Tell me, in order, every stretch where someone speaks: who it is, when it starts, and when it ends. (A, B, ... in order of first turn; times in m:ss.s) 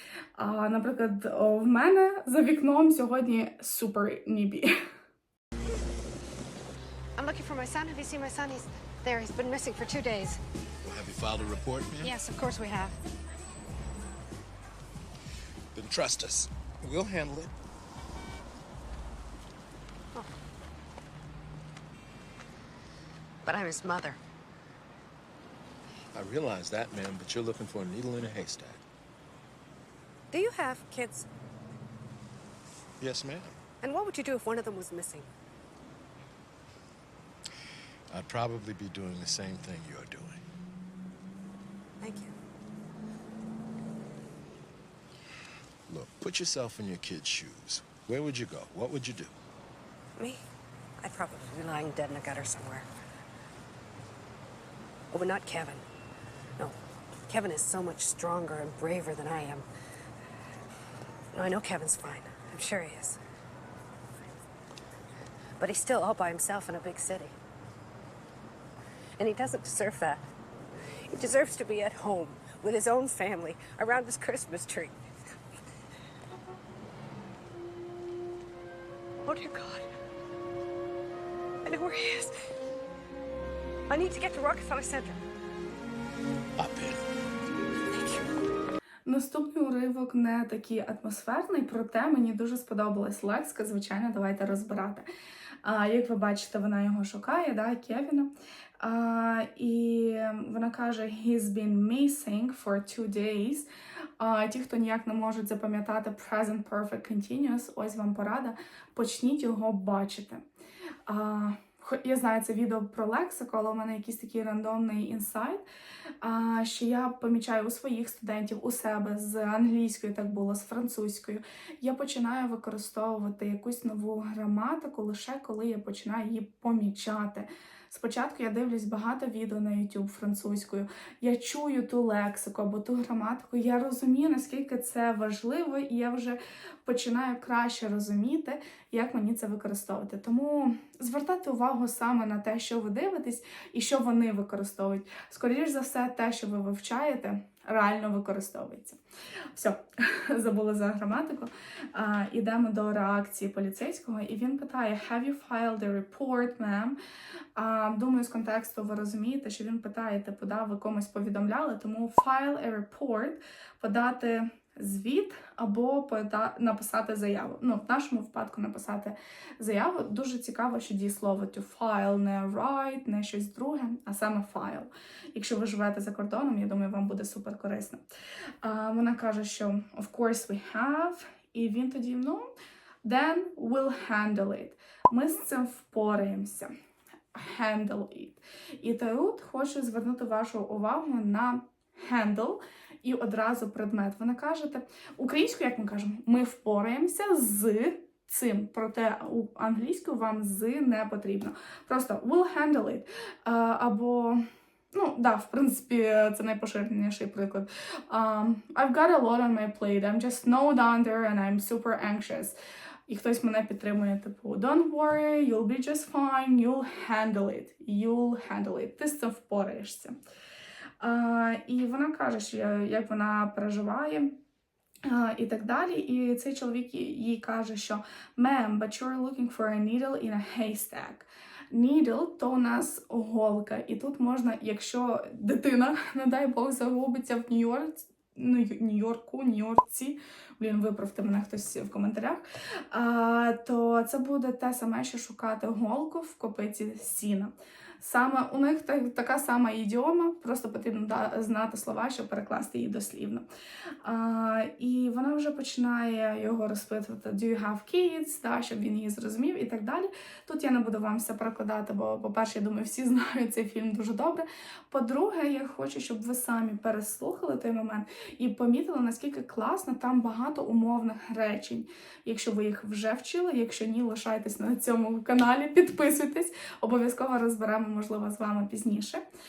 0:00.4-0:04.8 A
0:07.2-0:10.4 B
0:10.8-0:12.2 C
0:12.0-0:13.0 B
0:15.7-0:17.5 C
0:23.4-0:24.2 B
0:26.1-0:28.8 C
0:30.3-0:31.3 B
0:33.0-0:33.6 C
0:33.8-0:35.3 B
0:38.1-0:40.4 C
0:42.0-0:42.3 B
0:45.9-0:49.3 C
0:51.0-0:52.9 B
0:55.1-0:55.8 B
0:57.3-0:59.7 B
1:01.3-1:03.2 B
1:05.6-1:07.4 B
1:09.2-1:10.2 B
1:11.1-1:15.0 B
1:19.2-1:19.9 B
1:21.6-1:22.3 B
1:23.9-1:25.2 B
1:26.6-1:27.0 C
1:27.9-1:28.3 B
1:29.1-1:35.1 A
1:35.6-1:43.7 A
1:44.2-1:50.4 A
1:51.1-1:55.6 A
1:56.2-2:29.0 A
2:29.5-2:37.0 A
2:37.6-2:58.0 A
2:58.6-3:02.5 A
3:03.0-3:06.7 A
3:07.3-3:24.4 A
3:24.9-3:32.6 A
3:33.1-3:40.2 A
3:41.0-3:44.4 A
3:45.0-4:13.4 A
4:14.0-4:39.2 A